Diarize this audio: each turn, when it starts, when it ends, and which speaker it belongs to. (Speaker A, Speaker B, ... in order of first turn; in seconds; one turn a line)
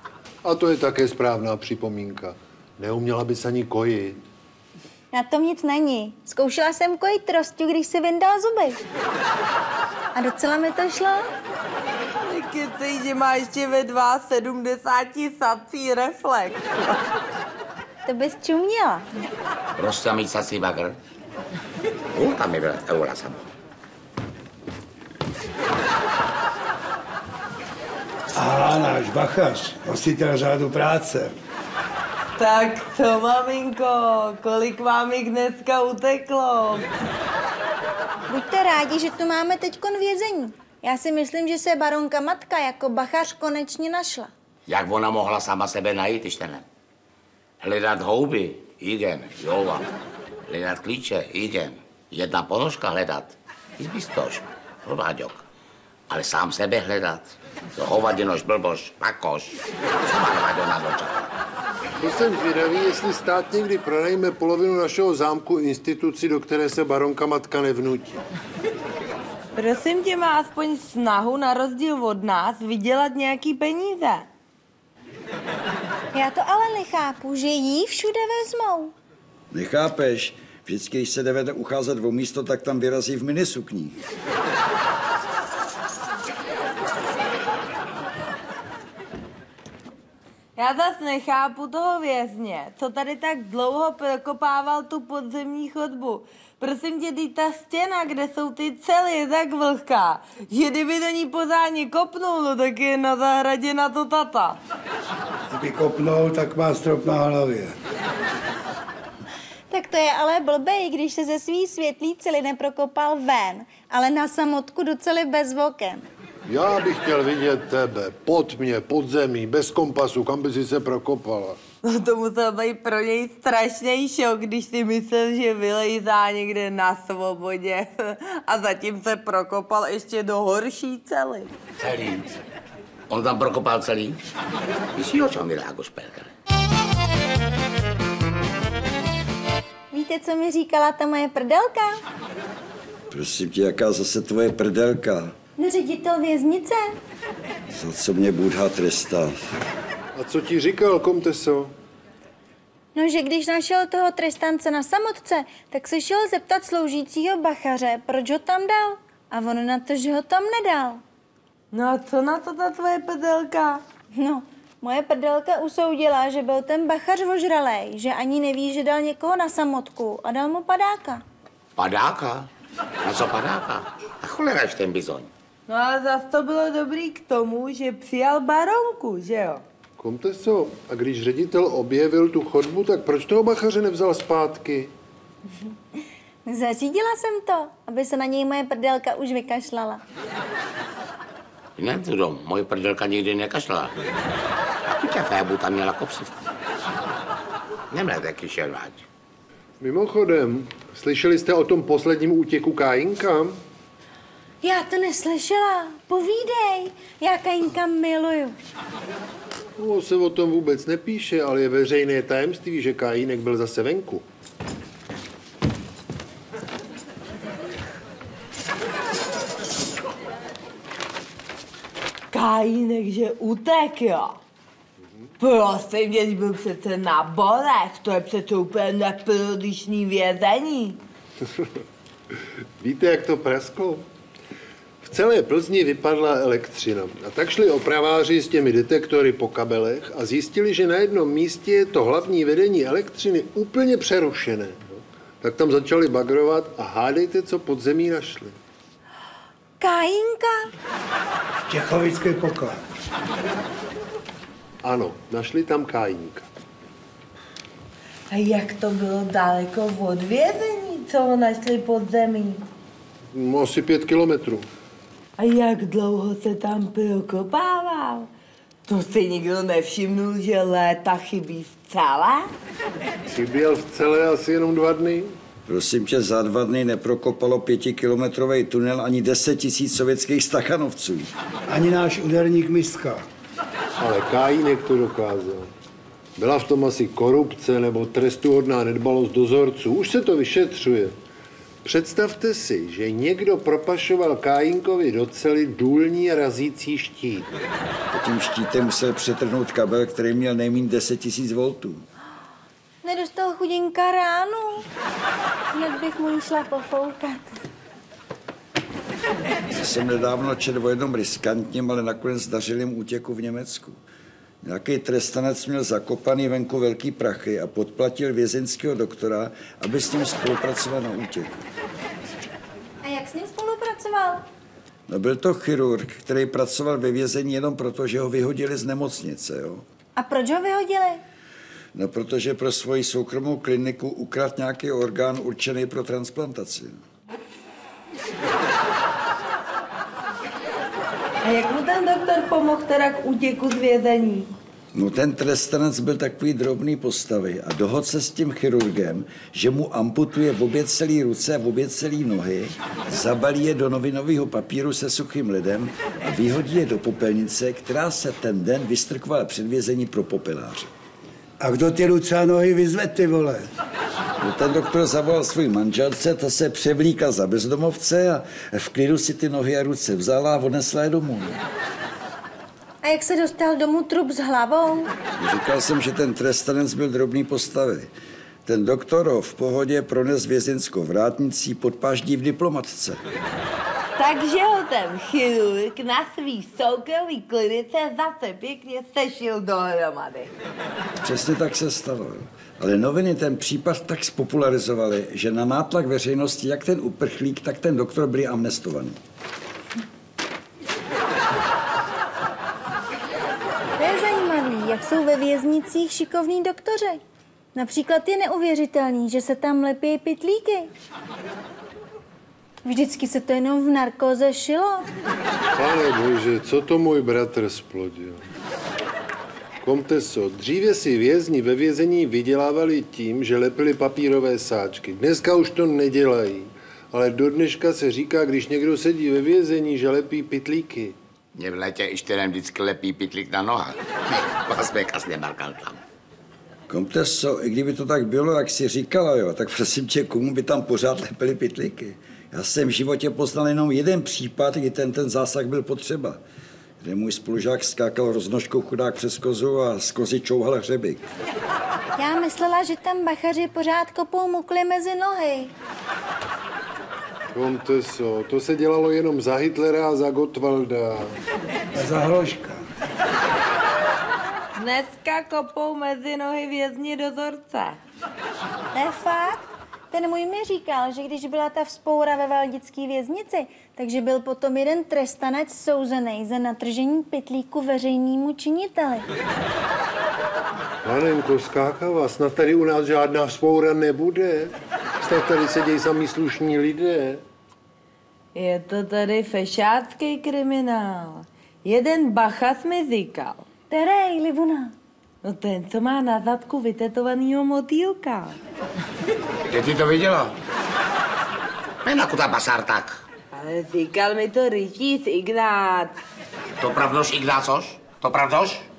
Speaker A: 0.4-4.2
Speaker B: 5.1-8.8
Speaker B: 10.2-11.3
Speaker C: 12.2-16.6
Speaker B: 18.1-19.1
Speaker D: 19.8-21.0
Speaker D: 22.1-23.5
Speaker E: 28.3-31.4
Speaker C: 32.4-36.9
Speaker B: 38.3-44.3
Speaker D: 44.7-46.6
Speaker D: 47.6-49.9
Speaker D: 50.5-55.5
Speaker D: 56.1-61.3
Speaker A: 62.0-68.2
Speaker C: 69.6-74.3
Speaker B: 76.1-78.9
Speaker F: 79.5-84.0
Speaker C: 90.6-104.6
Speaker E: 105.5-107.7
Speaker B: 109.7-116.0
Speaker A: 116.5-121.6
Speaker C: 121.8-131.5
Speaker D: 131.8-132.3
Speaker D: 133.1-134.2
Speaker D: 134.9-136.3
Speaker B: 139.9-142.0
Speaker F: 143.1-145.3
Speaker B: 145.6-146.9
Speaker F: 147.7-149.4
Speaker A: 150.2-151.7
Speaker B: 152.9-161.0
Speaker C: 161.7-163.8
Speaker B: 164.2-171.2
Speaker D: 171.8-172.5
Speaker D: 173.0-175.3
Speaker C: 175.7-179.6
Speaker A: 180.0-184.9
Speaker B: 186.5-190.0
Speaker D: 191.8-193.9
Speaker D: 194.9-196.4
Speaker D: 197.9-199.1
Speaker A: 199.8-203.6
Speaker B: 204.6-208.6
Speaker A: 209.8-214.2
Speaker C: 222.3-224.4
Speaker C: 225.4-231.0
Speaker A: 232.8-234.1
Speaker A: 235.0-248.6
Speaker B: 249.8-250.7
Speaker E: 251.6-252.8
Speaker A: 254.8-256.5
Speaker C: 258.3-262.6
Speaker A: 263.3-264.6
Speaker C: 265.4-268.3
Speaker C: 268.9-272.5
Speaker A: 273.3-275.4
Speaker F: 275.7-281.3
Speaker E: 281.7-283.2
Speaker A: 284.0-285.7
Speaker A: 286.4-291.1
Speaker A: 291.8-297.5
Speaker F: 298.1-302.1
Speaker B: 303.0-304.9
Speaker B: 305.7-307.6
Speaker F: 309.7-314.0
Speaker F: 314.6-321.6
Speaker B: 323.0-324.4
Speaker F: 325.1-329.9
Speaker B: 330.2-331.2
Speaker F: 331.9-337.0
Speaker C: 341.4-344.5
Speaker F: 344.9-360.9
Speaker E: 361.6-363.6
Speaker F: 364.4-371.6
Speaker B: 373.0-375.1
Speaker F: 375.4-378.1
Speaker F: 378.7-383.2
Speaker C: 384.2-390.5
Speaker F: 391.2-399.2
Speaker B: 404.0-407.2
Speaker B: 407.8-410.9
Speaker B: 412.9-415.1
Speaker A: 415.8-418.4
Speaker A: 419.8-431.2
Speaker D: 431.6-436.0
Speaker F: 436.9-446.4
Speaker F: 447.0-451.3
Speaker B: 452.2-455.7
Speaker A: 457.5-461.4
Speaker E: 461.9-462.8
Speaker C: 464.8-468.0
Speaker B: 468.9-479.3
Speaker A: 481.0-487.4
Speaker C: 488.6-493.7
Speaker B: 493.9-494.9
Speaker C: 495.4-498.6
Speaker D: 499.7-500.6
Speaker D: 502.0-503.2
Speaker C: 503.5-506.2
Speaker D: 506.8-508.9